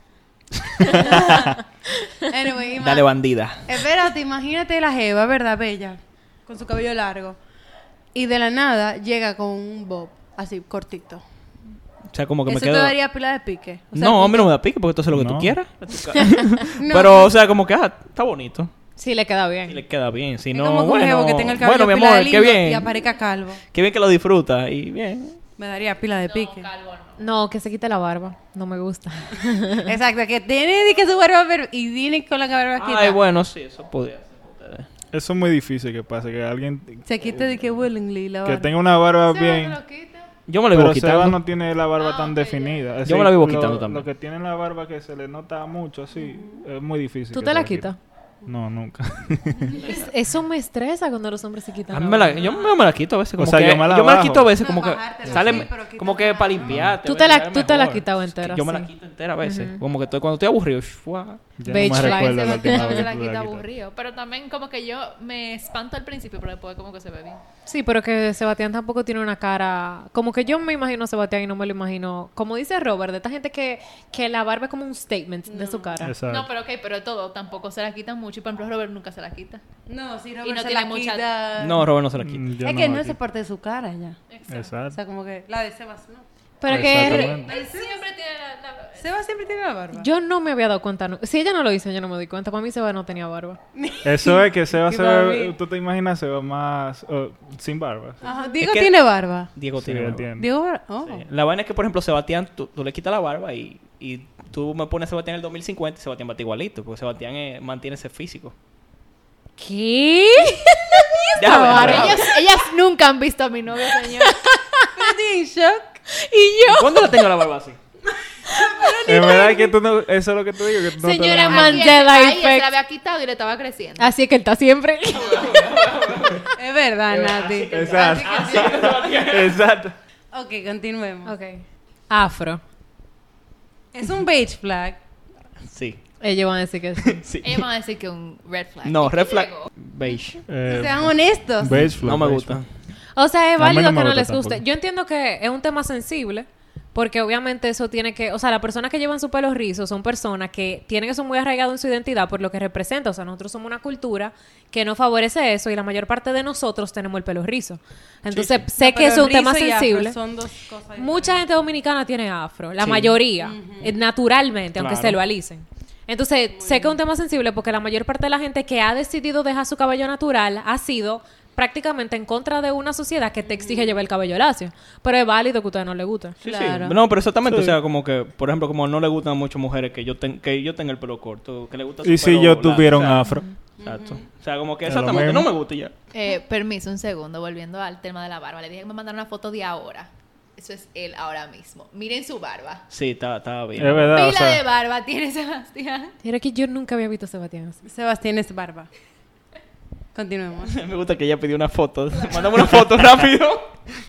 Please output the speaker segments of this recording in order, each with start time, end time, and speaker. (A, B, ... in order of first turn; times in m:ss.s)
0:00.8-0:02.1 A
0:00.9-0:01.6 B
0:02.3-0:03.1 B
0:02.8-0:03.6 C
0:03.7-0:07.4 B
0:08.1-0:11.2 B
0:12.1-0:13.0 C
0:12.5-0:14.5 B
0:13.9-0:18.7 C
0:15.1-0:15.6 D
0:16.8-0:17.3 B
0:19.0-0:19.8 A
0:19.7-0:23.0 C
0:20.5-0:23.6 B
0:23.7-0:25.4 C
0:25.6-0:26.7 B
0:26.2-0:27.2 E
0:27.2-0:29.9 A
0:29.8-0:33.2 B
0:32.8-0:34.9 C
0:35.1-0:37.0 D
0:37.0-0:38.7 B
0:38.4-0:39.8 D
0:39.2-0:40.3 E
0:40.5-0:41.4 C
0:40.7-0:47.9 D
0:42.0-0:42.8 E
0:43.0-0:44.1 C
0:46.2-0:46.6 B
0:47.3-0:48.0 A
0:48.5-0:49.8 D
0:49.8-0:52.7 A
0:51.9-1:01.4 C
0:53.4-0:54.5 D
0:54.6-0:56.8 B
0:55.3-0:55.6 D
0:56.6-0:57.0 D
0:57.0-0:58.9 A
0:59.4-0:59.8 A
1:01.6-1:03.7 D
1:01.6-1:03.1 A
1:01.8-1:07.4 E
1:07.7-1:16.2 A
1:15.5-1:16.0 B
1:16.0-1:16.5 D
1:16.2-1:19.6 E
1:19.9-1:21.9 B
1:20.4-1:21.3 E
1:21.6-1:22.5 C
1:22.2-1:23.2 D
1:22.6-1:24.2 B
1:24.3-1:24.7 E
1:24.5-1:25.0 D
1:24.9-1:26.2 B
1:26.6-1:27.4 A
1:26.7-1:27.5 D
1:26.8-1:28.0 B
1:27.0-1:29.1 E
1:29.0-1:30.1 B
1:29.9-1:33.6 A
1:33.8-1:34.5 B
1:34.0-1:38.2 D
1:34.9-1:35.5 A
1:38.2-1:39.5 B
1:38.6-1:40.3 C
1:39.8-1:40.5 D
1:40.4-1:41.2 B
1:41.1-1:48.5 C
1:49.6-1:52.4 A
1:51.4-1:52.3 C
1:51.6-1:54.4 E
1:54.0-1:55.0 A
1:55.0-1:56.0 B
1:56.1-1:57.1 A
1:56.7-1:57.8 C
1:58.5-1:59.8 B
1:59.0-2:01.9 D
2:01.0-2:02.7 A
2:01.2-2:04.1 E
2:04.0-2:05.9 A
2:05.2-2:06.5 C
2:06.6-2:08.2 B
2:07.1-2:09.6 C
2:07.7-2:10.0 D
2:07.9-2:09.0 E
2:10.3-2:11.3 B
2:11.2-2:12.6 A
2:13.9-2:15.0 B
2:15.7-2:16.0 C
2:16.2-2:17.2 A
2:17.0-2:17.7 C
2:17.4-2:19.7 E
2:18.8-2:20.4 C
2:20.5-2:22.6 D
2:20.7-2:21.8 B
2:21.8-2:22.7 C
2:23.2-2:40.2 A
2:23.6-2:24.6 D
2:38.3-2:38.6 C
2:38.7-2:41.4 B
2:41.0-2:56.4 A
2:42.8-2:43.2 C
2:43.4-2:44.0 B
2:44.8-2:45.2 C
2:46.6-2:47.0 B
2:53.5-2:53.9 B
2:56.4-2:57.0 B
2:56.4-3:03.3 C
2:57.4-2:57.8 D
3:02.0-3:03.5 D
3:03.8-3:04.3 B
3:03.8-3:05.9 C
3:04.9-3:05.5 D
3:06.1-3:12.8 E
3:12.9-3:14.2 C
3:13.8-3:14.6 D
3:14.1-3:16.1 E
3:16.2-3:17.8 A
3:17.8-3:18.9 B
3:20.1-3:20.8 B
3:20.6-3:23.9 C